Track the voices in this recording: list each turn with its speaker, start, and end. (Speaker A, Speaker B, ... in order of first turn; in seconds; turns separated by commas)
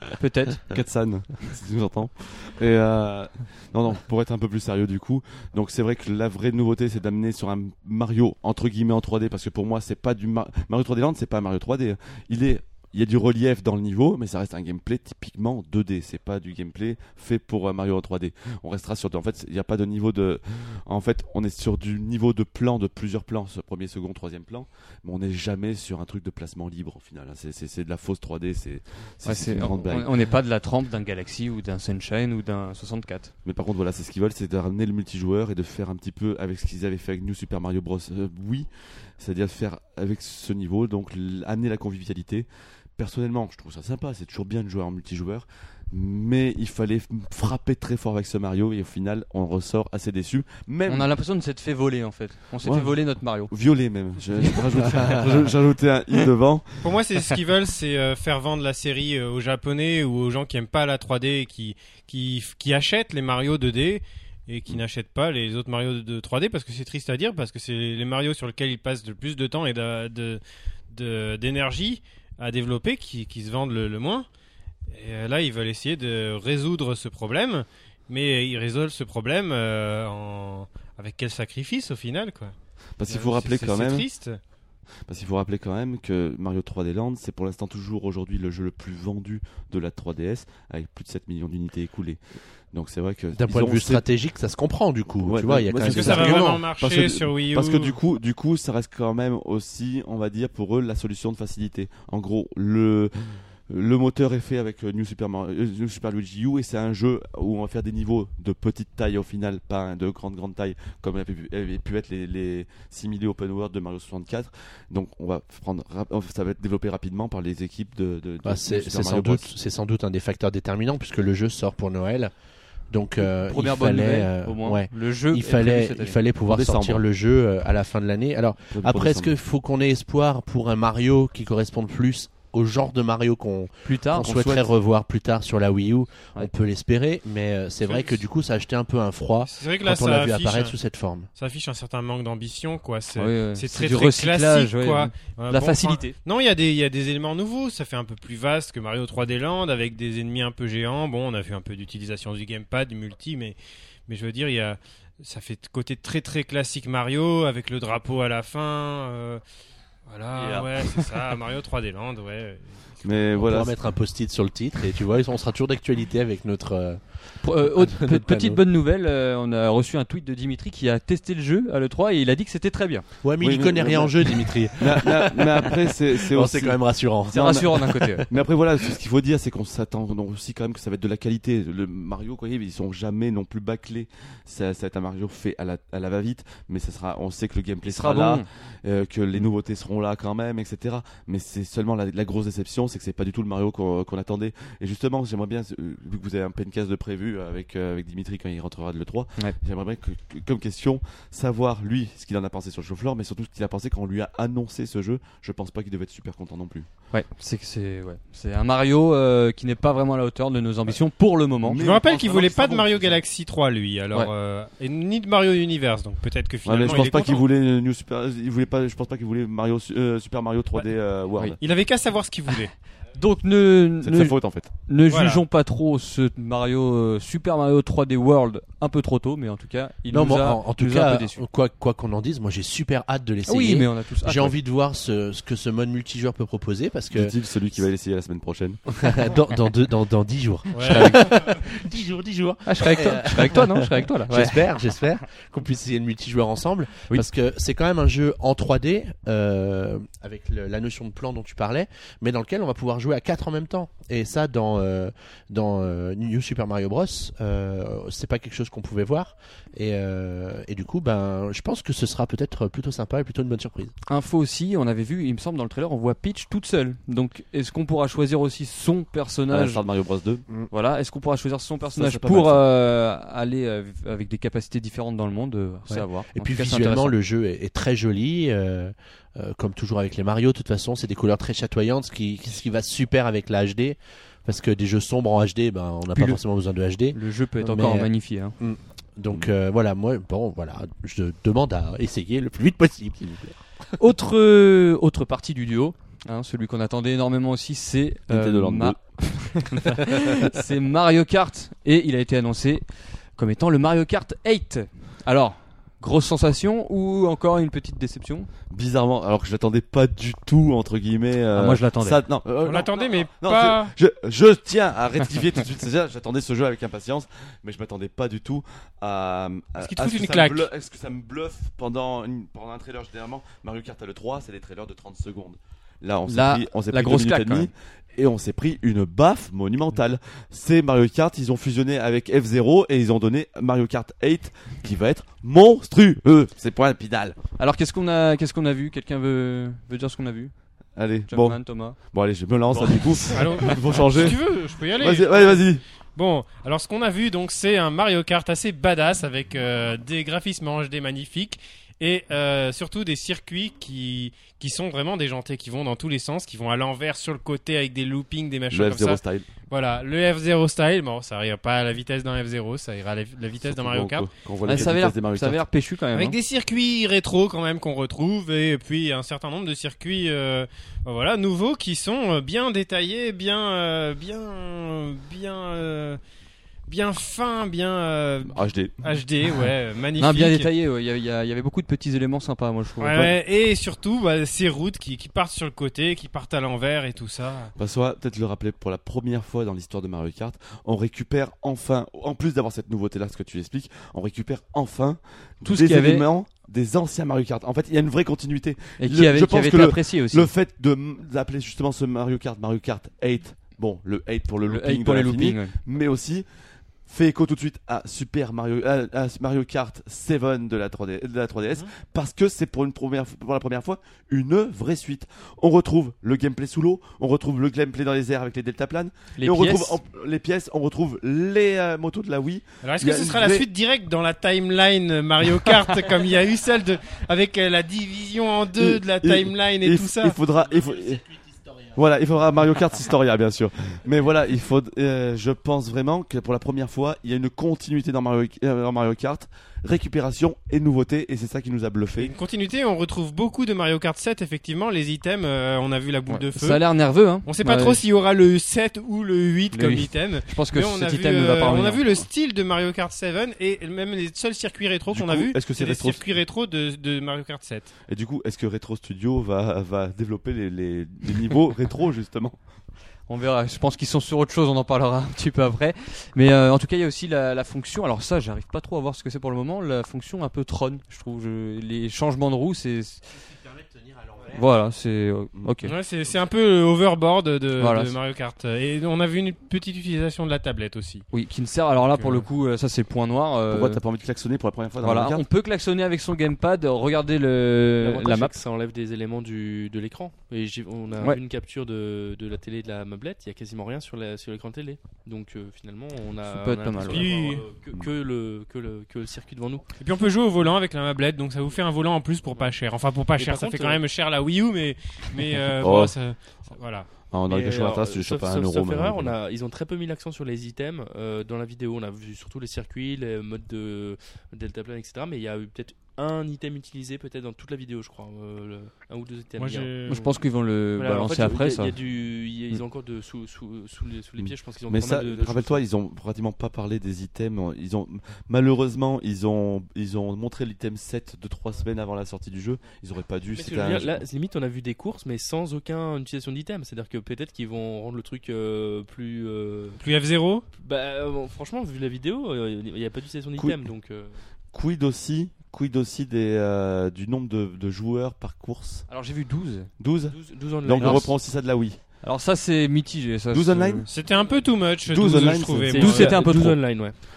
Speaker A: 0.2-0.6, Speaker B: 0.7-30.1, Speaker A: 29.2-33.3, Speaker B: 33.5-38.7, Speaker B: 39.2-51.1, Speaker A: 50.9-53.5, Speaker B: 52.6-56.9, Speaker A: 54.4-55.3, Speaker C: 56.8-74.3, Speaker C: 74.9-82.5, Speaker B: 83.0-84.1, Speaker C: 83.1-84.4, Speaker B: 85.1-92.2, Speaker B: 92.7-94.1, Speaker D: 93.3-96.6, Speaker B: 95.2-119.5, Speaker C: 95.8-98.0, Speaker D: 118.5-122.3, Speaker D: 122.9-141.3, Speaker A: 123.2-126.2, Speaker B: 126.5-127.0, Speaker B: 128.7-129.3, Speaker A: 133.8-134.4, Speaker B: 134.2-134.7, Speaker C: 137.8-138.2, Speaker C: 139.5-140.8, Speaker C: 141.3-159.4, Speaker A: 143.2-146.2, Speaker C: 160.1-163.4, Speaker A: 160.3-161.3, Speaker B: 163.0-163.8, Speaker D: 163.4-167.0, Speaker A: 167.4-173.1, Speaker D: 167.5-168.6, Speaker D: 173.2-178.4, Speaker B: 173.4-206.9, Speaker A: 177.3-178.3, Speaker A: 187.8-188.5, Speaker A: 207.1-211.8, Speaker B: 211.6-213.2, Speaker C: 211.7-217.4, Speaker B: 216.7-221.6, Speaker C: 221.6-222.7, Speaker A: 223.2-231.4, Speaker B: 224.0-224.7, Speaker C: 225.1-225.4, Speaker D: 230.1-237.3, Speaker A: 233.5-234.6, Speaker B: 237.1-238.8, Speaker D: 239.0-263.9, Speaker C: 240.7-241.3, Speaker A: 240.9-241.2, Speaker A: 242.7-244.6, Speaker A: 264.1-269.8, Speaker B: 269.5-270.4, Speaker A: 270.7-277.1, Speaker B: 271.9-272.7, Speaker D: 275.9-293.6, Speaker A: 286.1-286.4, Speaker A: 287.1-288.6, Speaker A: 294.0-302.9, Speaker B: 298.3-299.0, Speaker A: 303.4-308.5, Speaker B: 308.7-337.4, Speaker A: 311.5-312.2, Speaker C: 312.6-313.9, Speaker C: 319.8-320.7, Speaker A: 326.3-327.7, Speaker A: 337.6-340.5, Speaker B: 341.0-344.4, Speaker A: 341.3-342.0, Speaker A: 342.7-343.7, Speaker C: 343.3-364.3, Speaker B: 344.9-345.8, Speaker B: 358.7-359.5, Speaker B: 363.6-365.6, Speaker A: 364.6-366.4, Speaker C: 366.1-376.2, Speaker C: 376.9-380.7, Speaker B: 378.5-379.0, Speaker A: 380.2-383.4, Speaker C: 383.0-387.7, Speaker B: 387.8-406.5, Speaker A: 395.6-396.3, Speaker A: 399.0-400.5, Speaker A: 404.7-405.8, Speaker B: 407.1-423.7, Speaker A: 419.4-420.0, Speaker C: 422.8-430.4, Speaker B: 428.8-442.3, Speaker C: 442.2-446.8, Speaker A: 446.3-448.0, Speaker C: 447.4-457.9, Speaker A: 449.7-452.2, Speaker B: 455.1-456.2, Speaker B: 458.1-462.6, Speaker A: 463.3-473.4, Speaker A: 474.5-475.9, Speaker C: 475.8-481.2, Speaker A: 477.8-478.2, Speaker A: 481.3-484.0, Speaker C: 482.1-482.5, Speaker B: 483.7-485.5, Speaker A: 485.0-488.6, Speaker E: 488.0-499.9, Speaker A: 496.5-497.3, Speaker C: 497.1-497.6, Speaker C: 500.0-507.1, Speaker E: 503.4-504.0, Speaker B: 505.8-506.1, Speaker B: 507.3-509.4, Speaker E: 507.5-520.2, Speaker C: 519.6-520.3, Speaker A: 520.1-522.0, Speaker E: 521.0-525.8, Speaker B: 524.4-534.2, Speaker E: 533.5-540.0, Speaker C: 540.0-540.6, Speaker E: 540.8-544.4, Speaker B: 543.6-543.8, Speaker B: 544.7-549.1, Speaker A: 549.1-549.9, Speaker B: 550.0-552.0, Speaker E: 550.3-551.4, Speaker A: 551.0-551.3, Speaker A: 552.2-554.1, Speaker B: 553.5-554.1, Speaker C: 554.1-556.4, Speaker B: 555.0-556.0, Speaker E: 555.9-557.2, Speaker A: 556.0-556.8